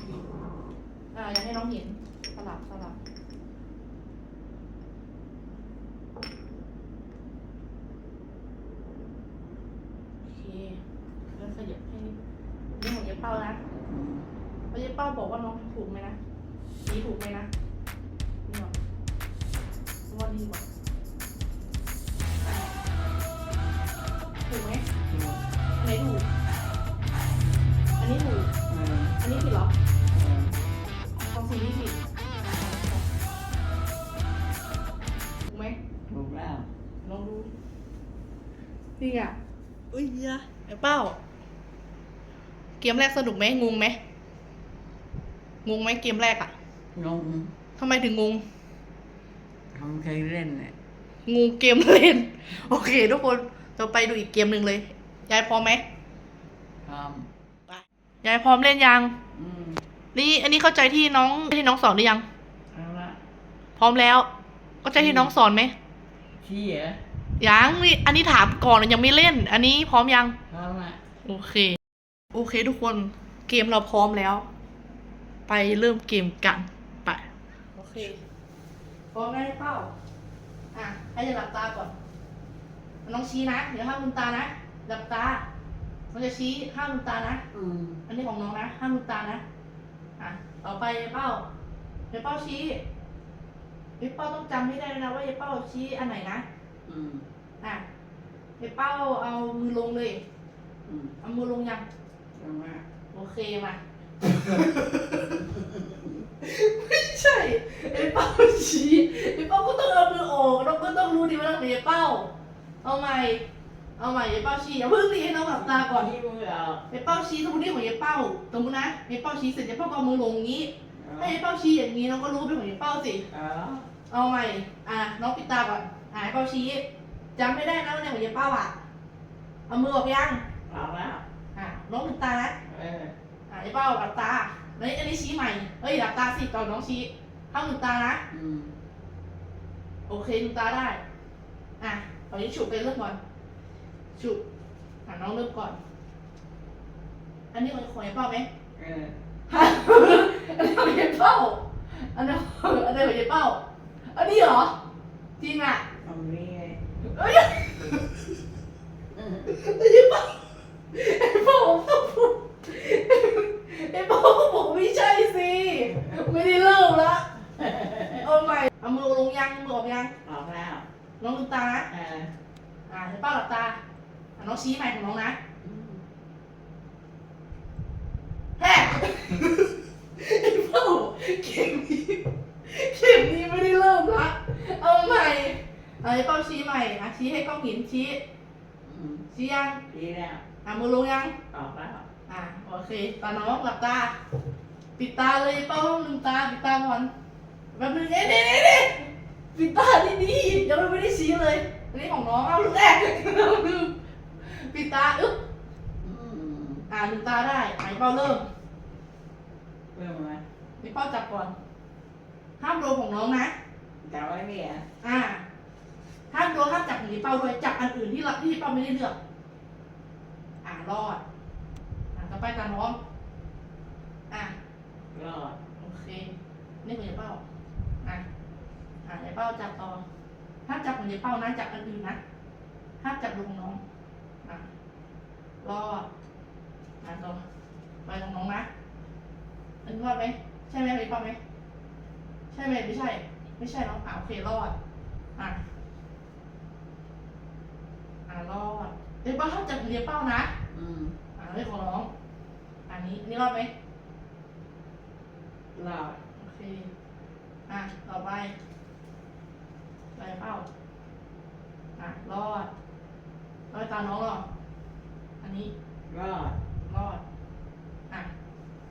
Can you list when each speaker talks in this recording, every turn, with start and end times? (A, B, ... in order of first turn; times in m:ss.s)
0:01.1-0:03.0 A
0:10.2-0:10.8 A
0:11.3-0:12.2 A
0:12.8-0:13.6 A
0:13.9-0:14.3 B
0:14.7-0:16.2 A
0:16.8-0:17.5 A
0:18.5-0:18.7 A
0:20.1-0:20.6 A
0:24.4-0:24.8 A
0:25.1-0:25.4 B
0:25.8-0:26.2 A
0:28.0-0:28.5 A
0:28.7-0:29.2 B
0:29.2-0:29.7 A
0:30.1-0:30.6 B
0:31.2-0:33.0 A
0:35.4-0:35.8 A
0:36.1-0:36.7 B
0:37.0-0:37.5 A
0:39.0-0:39.4 A
0:39.9-0:41.2 A
0:42.8-0:44.0 A
0:45.6-0:46.5 A
0:46.9-0:47.5 B
0:47.8-0:48.4 A
0:49.7-0:50.7 B
0:51.2-0:55.8 A
0:56.8-0:57.3 B
0:57.7-0:59.1 A
0:59.3-0:59.8 B
1:00.1-1:02.2 A
1:02.7-1:03.2 B
1:03.8-1:04.3 A
1:04.8-1:05.7 A
1:04.9-1:05.3 B
1:06.4-1:07.0 B
1:07.4-1:10.4 A
1:10.5-1:11.0 B
1:11.2-1:11.8 A
1:12.3-1:14.4 A
1:15.5-1:18.2 A
1:19.1-1:19.9 A
1:20.7-1:22.0 A
1:23.0-1:25.4 A
1:26.1-1:27.4 A
1:27.5-1:28.0 B
1:28.1-1:29.4 A
1:30.2-1:31.4 A
1:32.1-1:32.8 A
1:34.0-1:36.4 A
1:36.9-1:37.2 B
1:38.6-1:40.2 A
1:40.8-1:41.2 B
1:41.2-1:41.8 A
1:42.3-1:42.8 B
1:43.1-1:43.8 A
1:44.4-1:45.3 A
1:45.4-1:46.1 B
1:46.4-1:52.3 A
1:52.8-1:53.4 A
1:54.0-1:56.1 A
1:55.5-1:56.9 B
1:56.9-2:03.3 A
2:01.0-2:01.4 B
2:03.3-2:03.9 B
2:04.1-2:06.8 A
2:07.4-2:08.8 A
2:09.7-2:10.4 A
2:10.7-2:11.2 B
2:11.5-2:12.6 A
2:12.6-2:13.1 B
2:13.5-2:18.2 A
2:18.3-2:18.7 B
2:20.1-2:21.0 A
2:21.8-2:23.2 A
2:24.2-2:24.4 A
2:25.0-2:25.8 A
2:27.5-2:28.5 A
2:28.8-2:29.2 B
2:29.5-2:34.8 A
2:35.4-2:35.8 A
2:36.0-2:36.8 B
2:37.0-2:38.0 A
2:39.1-2:39.5 B
2:39.5-2:40.4 A
2:40.9-2:47.3 A
2:47.6-2:48.2 B
2:48.0-2:50.1 A
2:50.2-2:50.8 B
2:51.2-2:51.9 A
2:51.9-2:52.3 B
2:52.9-2:53.8 A
2:54.4-2:55.4 A
2:55.6-2:56.0 B
2:58.6-3:08.2 A
3:08.8-3:09.2 B
3:09.3-3:09.8 A
3:09.9-3:10.4 B
3:10.6-3:11.4 A
3:11.5-3:12.0 B
3:12.3-3:14.1 A
3:15.0-3:17.1 A
3:17.7-3:25.4 A
3:26.0-3:26.9 B
3:26.9-3:28.4 A
3:29.9-3:30.4 B
3:30.8-3:31.5 A
3:32.6-3:33.5 A
3:34.0-3:34.8 B
3:35.0-3:35.4 A
3:36.3-3:39.2 A
3:40.6-3:41.2 A
3:42.1-3:43.0 A
3:44.3-3:44.5 A
3:45.1-3:45.6 B
3:45.8-3:47.4 A
3:49.0-3:50.0 A
3:50.6-3:52.2 A
3:53.0-3:53.8 A
3:55.6-3:56.1 A
3:57.0-3:57.4 A
3:58.0-3:58.7 A
3:59.8-4:01.4 A
4:02.5-4:04.7 A
4:08.3-4:10.5 A
4:10.7-4:11.2 B
4:11.4-4:12.1 A
4:12.9-4:13.7 A
4:15.7-4:16.2 B
4:16.4-4:16.9 A
4:17.7-4:18.5 A
4:20.1-4:20.6 A
4:22.0-4:22.7 A
4:23.7-4:24.4 A
4:25.4-4:25.7 A
4:26.1-4:26.6 B
4:26.9-4:27.2 A